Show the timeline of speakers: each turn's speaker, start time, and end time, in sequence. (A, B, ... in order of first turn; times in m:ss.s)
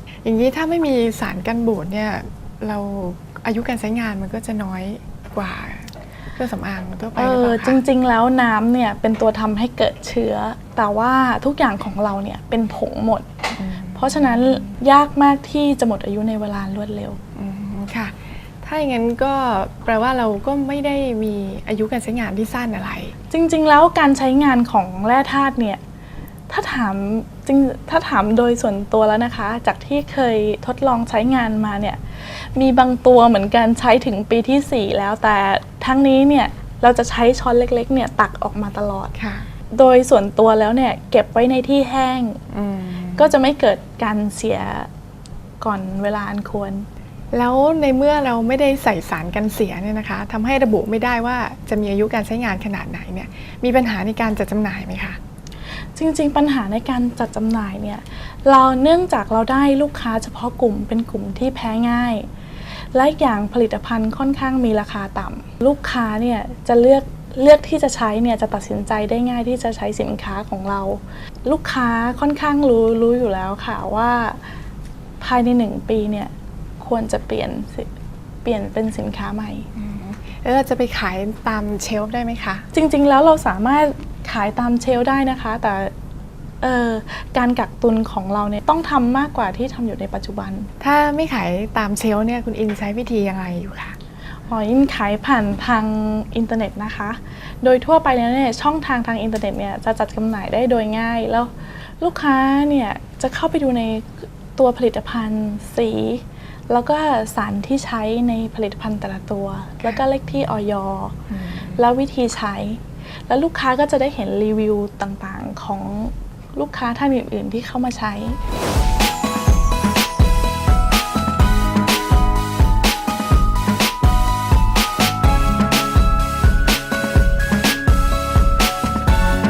0:00.2-0:07.8 A
0:07.2-0:13.3 B
0:13.6-0:14.3 A
0:14.0-0:17.2 B
0:17.4-0:23.1 A
0:23.3-0:25.8 B
0:26.5-0:39.1 B
0:39.2-0:39.5 A
0:39.7-0:42.4 B
0:42.5-0:43.3 A
0:43.2-0:44.9 B
0:45.6-0:46.9 B
0:47.3-0:55.2 A
0:56.0-1:14.4 B
1:15.2-1:17.9 B
1:18.4-1:19.7 B
1:19.8-1:22.6 A
1:22.7-1:25.9 B
1:26.6-1:30.7 B
1:30.8-1:34.0 A
1:34.5-1:51.2 B
1:51.3-1:51.6 A
1:51.7-1:58.4 B